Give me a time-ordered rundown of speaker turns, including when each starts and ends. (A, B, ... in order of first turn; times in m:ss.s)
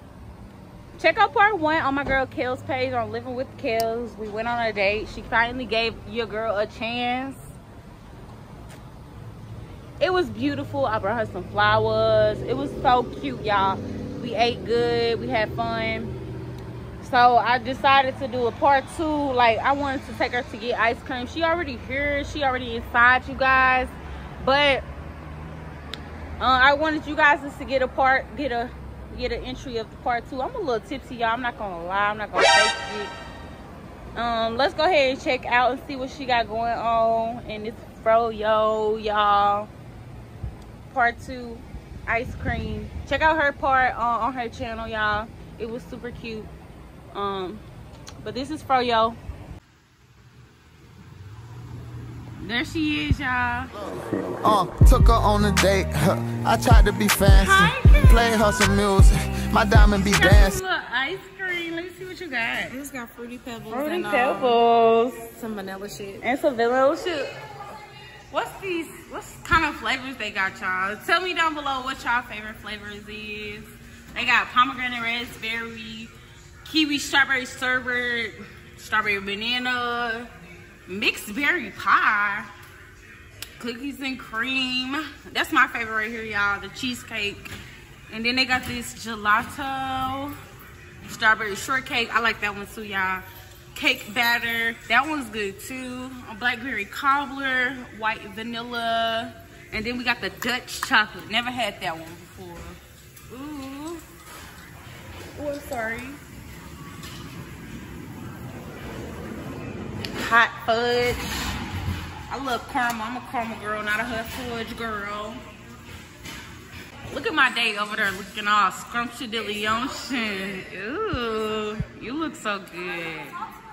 0:01.0-0:07.5 A
0:10.0-0:16.1 A
0:17.0-0:24.9 A
0:26.4-0:33.1 A
0:34.2-0:39.7 A
0:40.9-0:46.5 A
0:47.1-0:47.6 A
0:48.2-0:49.2 A
0:52.4-0:53.7 A
0:54.4-1:00.6 B
0:57.3-0:58.4 A
0:59.9-1:02.8 A
1:02.7-1:04.6 C
1:03.7-1:05.3 A
1:05.4-1:06.2 C
1:06.2-1:07.4 A
1:08.3-1:16.1 A
1:16.6-1:20.3 A
1:20.9-1:22.5 A
1:23.6-1:27.5 A
1:28.1-1:30.4 A
1:31.0-1:44.0 A
1:45.4-1:46.2 A
1:50.1-1:51.3 A
1:52.3-1:55.4 A
1:57.1-2:03.4 A